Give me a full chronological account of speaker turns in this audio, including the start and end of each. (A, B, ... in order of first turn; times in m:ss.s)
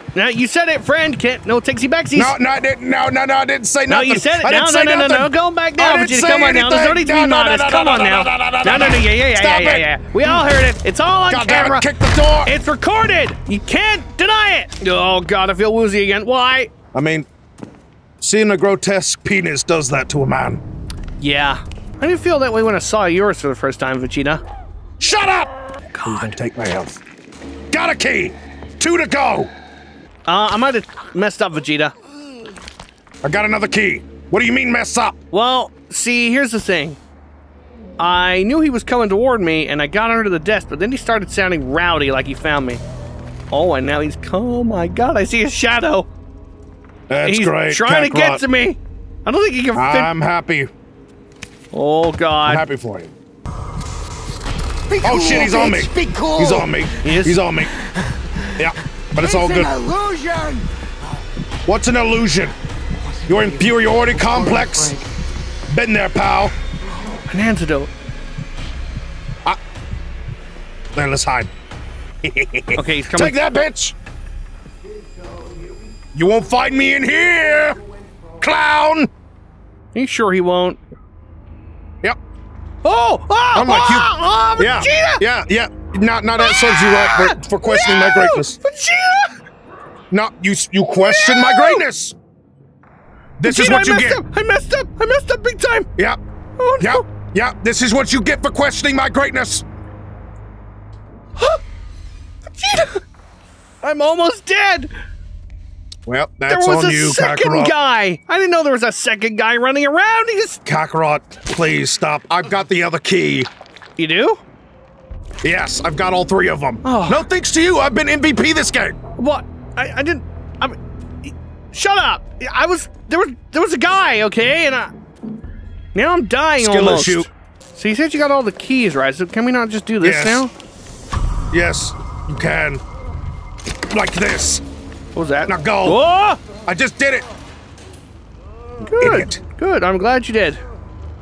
0:00.2-0:02.4 A
0:02.1-0:09.9 B
0:03.9-0:11.9 A
0:11.3-0:12.6 B
0:12.4-0:16.7 A
0:16.9-0:17.3 B
0:18.2-0:20.6 B
0:21.2-0:24.4 A
0:25.0-0:25.5 B
0:25.9-0:26.4 A
0:26.0-0:27.0 B
0:27.7-0:29.5 B
0:30.3-0:31.9 A
0:33.2-0:35.2 B
0:35.3-0:37.0 A
0:38.0-0:42.8 A
0:43.5-0:46.1 A
0:47.1-0:48.4 B
0:47.2-0:50.1 A
0:49.8-0:50.7 B
0:51.7-0:52.6 A
0:52.4-0:53.1 B
0:54.9-0:56.9 C
0:55.0-0:57.7 B
0:57.0-0:57.4 A
0:58.6-0:59.7 B
0:59.2-1:00.7 C
1:01.7-1:02.6 B
1:03.1-1:05.0 C
1:03.3-1:05.0 B
1:05.7-1:06.5 B
1:07.3-1:07.9 A
1:11.0-1:11.5 B
1:12.2-1:14.0 B
1:12.8-1:13.4 A
1:16.1-1:17.8 B
1:18.4-1:19.1 B
1:20.0-1:20.8 A
1:22.8-1:25.2 A
1:23.5-1:28.6 B
1:26.4-1:29.4 A
1:30.1-1:32.2 B
1:30.9-1:31.8 A
1:33.4-1:34.2 B
1:33.4-1:35.9 A
1:36.6-1:37.0 A
1:36.8-1:39.6 B
1:42.6-1:43.0 A
1:43.8-1:44.9 A
1:46.1-1:47.7 B
1:46.5-1:50.6 A
1:50.6-1:53.5 B
1:54.0-1:54.4 A
1:55.4-1:59.0 B
1:56.8-1:57.2 A
1:59.2-2:04.9 A
2:05.9-2:10.5 A
2:06.6-2:07.3 B
2:10.0-2:10.4 B
2:11.5-2:12.8 B
2:13.9-2:14.6 B
2:15.2-2:16.4 A
2:15.5-2:16.0 B
2:16.6-2:17.2 B
2:18.8-2:20.6 A
2:19.0-2:19.4 B